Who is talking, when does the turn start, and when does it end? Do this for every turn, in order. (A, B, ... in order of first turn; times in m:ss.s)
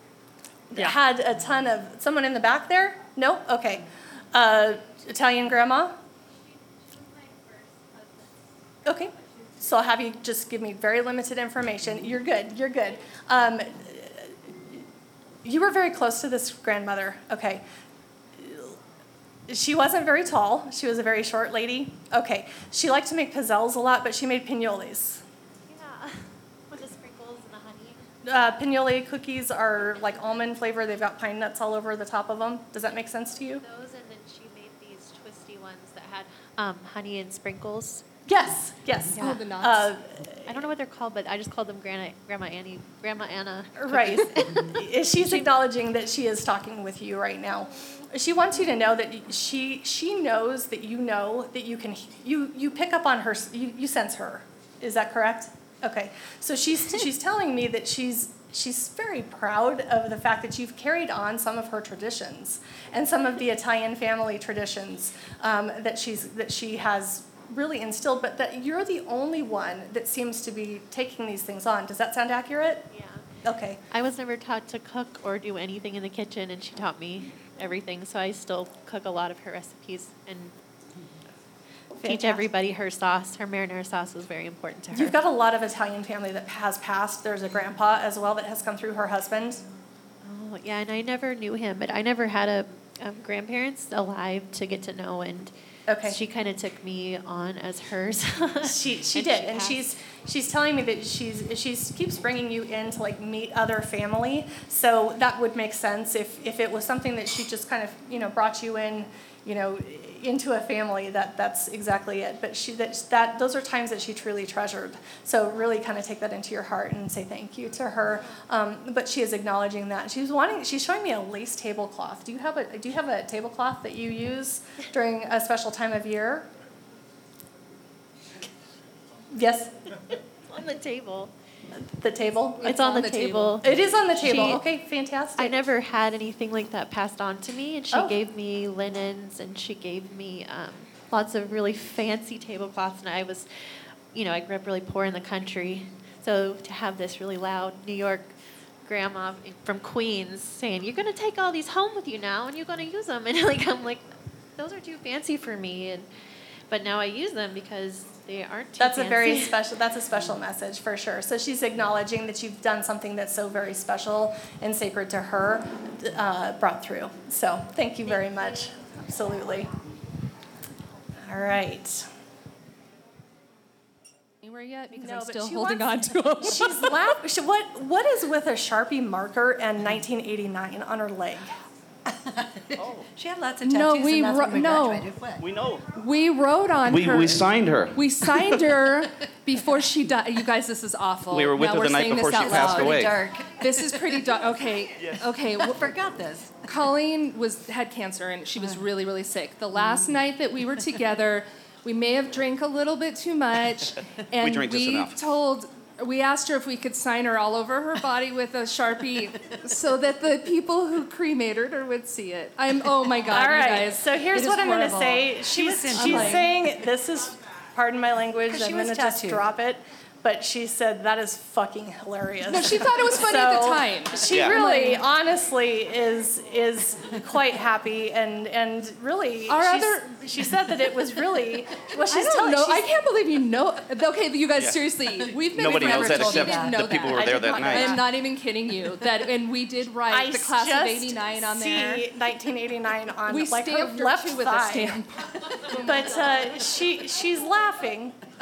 0:00.7-0:05.9 A
0:08.8-0:14.3 A
0:15.4-0:17.6 A
0:18.4-0:18.7 A
0:19.5-0:25.2 A
0:25.7-0:28.0 B
0:28.2-0:33.6 A
0:33.6-0:38.0 B
0:38.2-0:40.5 A
0:39.1-0:39.9 C
0:40.4-0:44.7 B
0:43.8-1:12.9 A
1:12.9-1:13.2 B
1:13.4-1:13.8 A
1:13.9-1:20.5 B
1:22.0-1:22.5 A
1:22.0-1:25.1 B
1:24.9-1:29.6 A
1:30.2-1:35.5 B
1:35.9-1:36.2 A
1:36.0-1:39.8 B
1:38.6-2:06.5 A
2:09.3-2:09.7 A
2:10.5-2:11.3 B
2:11.8-2:12.7 A
2:12.6-2:13.6 C
2:12.6-2:13.7 B
2:13.6-2:15.7 A
2:14.2-2:14.6 B
2:15.4-2:23.5 B
2:17.9-2:18.2 A
2:24.1-2:28.3 B
2:28.8-2:34.0 B
2:34.6-2:36.1 B
2:36.7-2:39.5 B
2:38.8-2:49.7 A
2:51.3-2:52.0 A
2:54.4-2:57.0 C
2:54.9-3:01.5 A
3:02.2-3:05.4 D
3:02.8-3:03.1 E
3:03.6-3:05.1 C
3:05.4-3:05.8 E
3:05.9-3:15.8 C
3:06.8-3:08.6 E
3:11.3-3:13.2 E
3:12.4-3:13.7 D
3:15.6-3:16.7 D
3:16.6-3:35.3 C
3:24.4-3:25.2 E
3:33.3-3:52.9 A
3:35.5-3:36.5 D
3:35.9-3:36.4 C
3:38.5-3:39.4 D
3:42.5-3:45.0 C
3:49.5-3:50.2 C
3:52.1-4:02.0 C
3:54.5-3:54.8 E
3:55.5-3:57.8 E
3:55.6-3:56.8 D
3:56.6-3:58.0 A
4:00.1-4:05.0 A
4:03.3-4:06.0 C
4:05.7-4:08.2 A